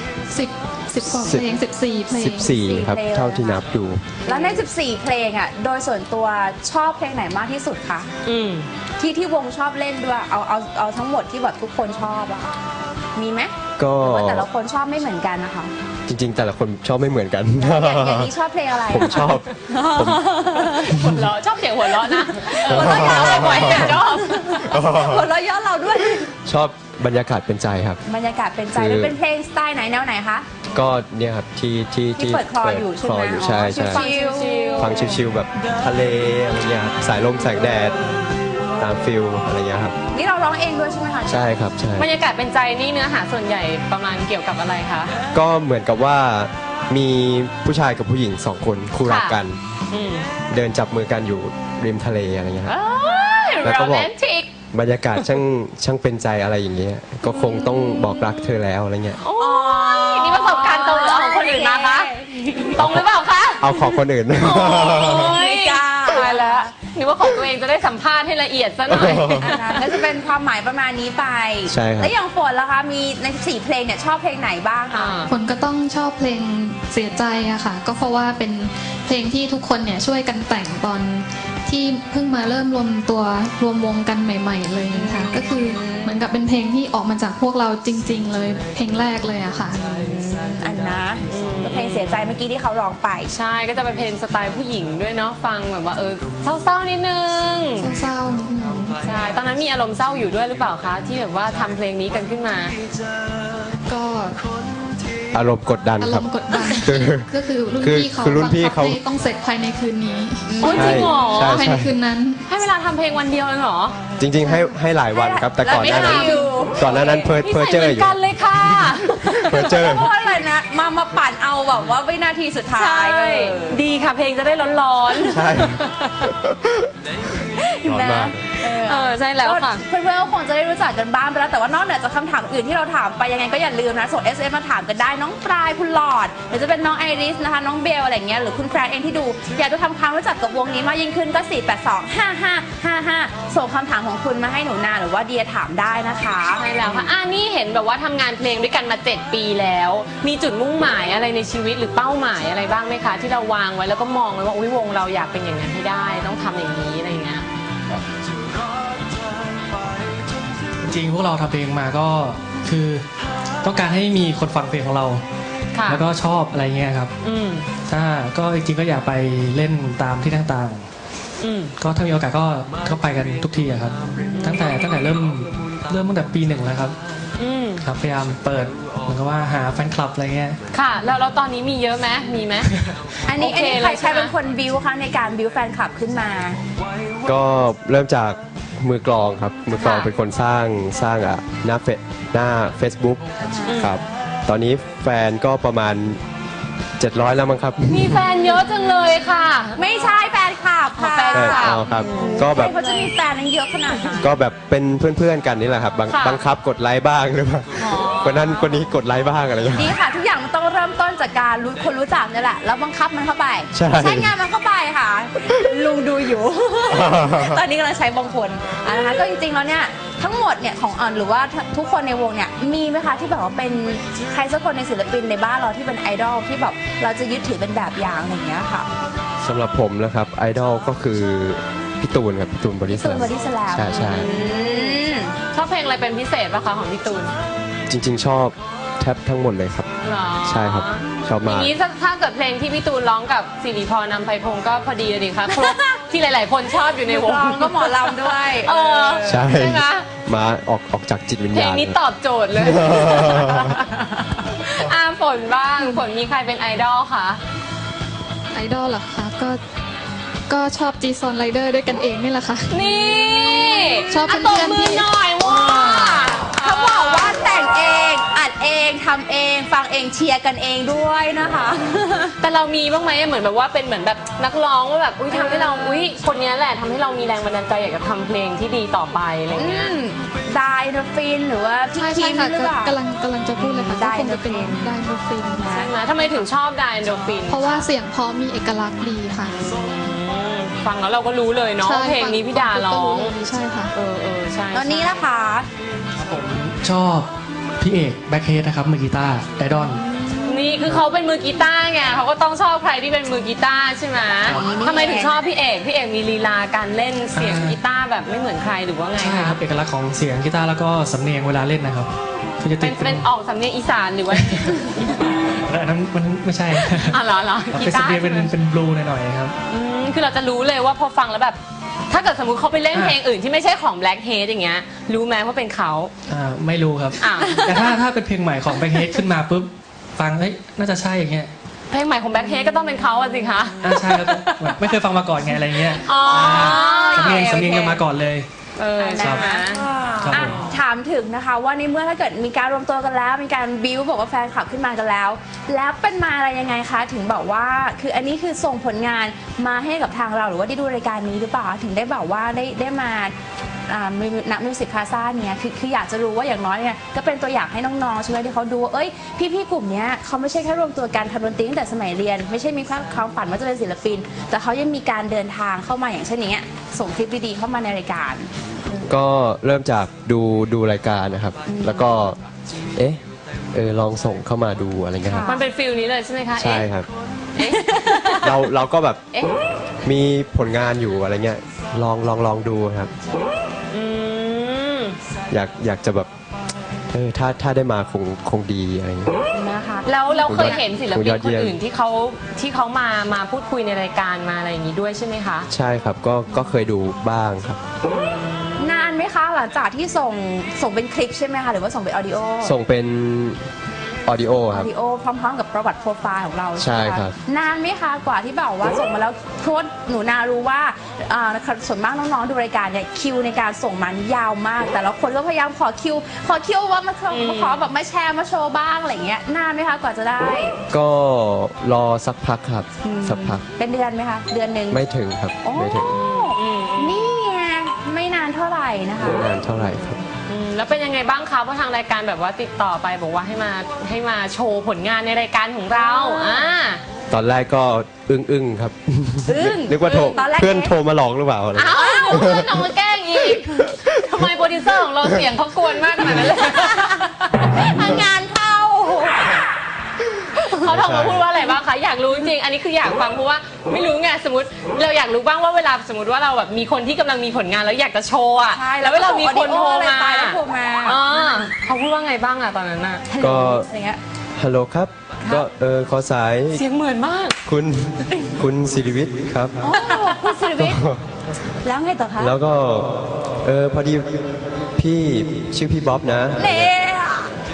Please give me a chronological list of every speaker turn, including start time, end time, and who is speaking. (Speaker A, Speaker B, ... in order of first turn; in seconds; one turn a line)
Speaker A: 0.3-2.5
Speaker B: 1.1-1.5
Speaker B: 2.1-4.2
Speaker C: 2.5-3.6
Speaker D: 4.2-4.6
Speaker C: 4.2-8.1
Speaker D: 8.2-8.7
Speaker C: 9.0-12.6
Speaker C: 13.1-15.7
Speaker B: 13.8-14.5
Speaker B: 16.1-18.3
Speaker C: 17.6-21.2
Speaker B: 18.9-21.3
Speaker D: 20.8-24.7
Speaker C: 22.0-26.3
Speaker B: 22.7-24.0
Speaker B: 24.6-25.3
Speaker B: 26.4-28.0
Speaker C: 28.1-30.5
Speaker B: 28.7-29.1
Speaker B: 30.7-34.1
Speaker C: 32.2-35.2
Speaker D: 33.7-35.2
Speaker B: 34.8-38.0
Speaker B: 38.8-39.9
Speaker C: 40.1-41.5
Speaker B: 41.3-42.1
Speaker D: 42.0-45.2
Speaker B: 45.3-49.6
Speaker D: 49.0-50.3
Speaker B: 50.5-52.7
Speaker D: 52.6-54.5
Speaker C: 52.9-53.7
Speaker B: 53.6-54.1
Speaker B: 54.7-59.2
Speaker C: 57.3-58.2
Speaker D: 59.2-62.1
Speaker C: 59.3-62.8
Speaker D: 62.7-69.8
Speaker B: 62.8-63.0
Speaker B: 63.6-65.4
Speaker C: 64.6-66.7
Speaker B: 68.9-69.6
Speaker C: 69.0-75.2
Speaker B: 71.7-72.1
Speaker D: 74.9-75.3
Speaker A: 75.3-89.9
Speaker C: 84.9-86.2
Speaker C: 89.9-93.3
Speaker D: 91.3-92.3
Speaker D: 93.3-97.9
Speaker A: 97.8-99.0
Speaker D: 99.0-102.7
Speaker A: 103.8-104.5
Speaker B: 105.3-107.3
Speaker A: 106.0-112.4
Speaker B: 107.8-109.0
Speaker C: 110.5-111.0
Speaker D: 110.6-111.7
Speaker B: 110.7-111.9
Speaker D: 112.5-114.0
Speaker B: 114.2-120.1
Speaker A: 114.5-114.7
Speaker C: 115.1-117.3
Speaker D: 115.7-119.9
Speaker C: 119.3-123.8
Speaker D: 122.7-126.3
Speaker B: 125.2-126.9
Speaker C: 127.6-147.1
Speaker B: 127.8-128.4
Speaker D: 128.6-129.8
Speaker D: 146.6-157.4
Speaker E: 160.8-163.1
Speaker E: 163.6-165.2
Speaker D: 165.7-166.0
Speaker E: 165.9-167.1
Speaker D: 167.2-167.7
Speaker E: 167.8-170.9
Speaker D: 171.4-171.7
Speaker E: 171.8-177.0
Speaker C: 174.2-174.6
Speaker D: 177.4-177.8
Speaker E: 177.8-180.6
Speaker D: 180.7-182.7
Speaker C: 183.2-186.6
Speaker D: 183.3-184.3
Speaker B: 187.2-196.2
Speaker D: 189.8-190.1
Speaker C: 193.5-193.9
Speaker D: 193.7-194.0
Speaker B: 197.0-198.3
Speaker D: 197.9-200.2
Speaker C: 199.8-204.3
Speaker D: 200.9-203.1
Speaker B: 201.3-202.8
Speaker B: 204.2-209.9
Speaker D: 206.1-206.4
Speaker D: 207.8-208.7
Speaker C: 209.7-228.9
Speaker B: 213.7-214.3
Speaker B: 216.9-217.6
Speaker B: 229.4-234.3
Speaker C: 232.9-235.3
Speaker D: 233.9-237.4
Speaker B: 237.9-239.9
Speaker D: 240.0-250.1
Speaker B: 240.4-241.7
Speaker C: 245.5-246.0
Speaker C: 247.1-249.4
Speaker B: 249.2-251.9
Speaker D: 251.5-257.4
Speaker B: 252.6-253.8
Speaker A: 258.5-259.6
Speaker A: 260.5-262.8
Speaker D: 262.7-267.5
Speaker C: 263.4-264.6
Speaker A: 264.1-265.1
Speaker C: 265.2-272.4
Speaker D: 272.4-279.9
Speaker C: 275.3-276.1
Speaker C: 279.5-283.0
Speaker A: 281.9-285.7
Speaker C: 283.6-284.9
Speaker C: 285.6-285.9
Speaker D: 285.7-287.9
Speaker A: 287.5-289.6
Speaker D: 289.6-293.3
Speaker A: 291.8-293.9
Speaker D: 293.9-295.2
Speaker C: 294.7-295.7
Speaker E: 296.2-300.0
Speaker C: 299.7-300.8
Speaker D: 300.4-309.6
Speaker C: 304.4-305.4
Speaker E: 307.4-307.8
Speaker E: 309.2-313.3
Speaker D: 312.8-315.4
Speaker E: 314.5-319.5
Speaker D: 316.9-318.5
Speaker D: 319.7-321.6
Speaker D: 322.1-326.1
Speaker E: 326.3-331.5
Speaker D: 327.2-327.9
Speaker C: 327.2-327.9
Speaker D: 331.9-334.9
Speaker C: 332.4-332.9
Speaker E: 333.8-338.5
Speaker D: 335.9-337.6
Speaker C: 336.1-338.0
Speaker D: 338.8-339.9
Speaker C: 339.0-353.3
Speaker E: 339.2-339.5
Speaker E: 340.2-340.6
Speaker C: 353.9-369.1
Speaker B: 369.0-372.4
Speaker C: 371.7-372.1
Speaker B: 372.9-373.2
Speaker B: 373.7-375.5
Speaker C: 375.2-375.6
Speaker D: 375.4-376.9
Speaker B: 376.6-377.1
Speaker D: 377.6-378.6
Speaker C: 377.6-378.4
Speaker B: 378.4-379.2
Speaker B: 380.0-383.1
Speaker D: 383.9-385.1
Speaker B: 385.5-386.3
Speaker B: 387.1-389.3
Speaker C: 389.5-390.8
Speaker D: 390.0-395.7
Speaker B: 390.4-391.7
Speaker B: 395.7-397.8
Speaker D: 398.1-399.2
Speaker C: 398.8-402.8
Speaker B: 402.6-403.6
Speaker B: 404.2-404.9
Speaker C: 404.7-420.7
Speaker B: 406.8-407.4
Speaker D: 417.3-417.8
Speaker B: 420.9-423.6
Speaker C: 423.0-425.0
Speaker B: 424.9-426.2
Speaker C: 425.6-429.5
Speaker D: 425.9-427.3
Speaker B: 429.2-430.2
Speaker D: 430.5-437.0
Speaker C: 435.9-436.6
Speaker B: 437.3-442.9
Speaker C: 439.4-440.9
Speaker D: 440.0-440.4
Speaker D: 441.7-447.3
Speaker C: 441.9-442.6
Speaker B: 443.8-444.5
Speaker C: 446.2-449.6
Speaker D: 450.7-463.2
Speaker B: 450.8-451.4
Speaker C: 458.7-461.2
Speaker C: 463.3-464.2
Speaker B: 463.4-463.9
Speaker B: 464.6-466.8
Speaker D: 466.7-467.6
Speaker B: 467.6-469.8
Speaker C: 469.8-471.0
Speaker D: 470.0-470.8
Speaker B: 470.8-471.2
Speaker C: 471.8-472.5
Speaker B: 472.4-476.9
Speaker C: 476.6-477.5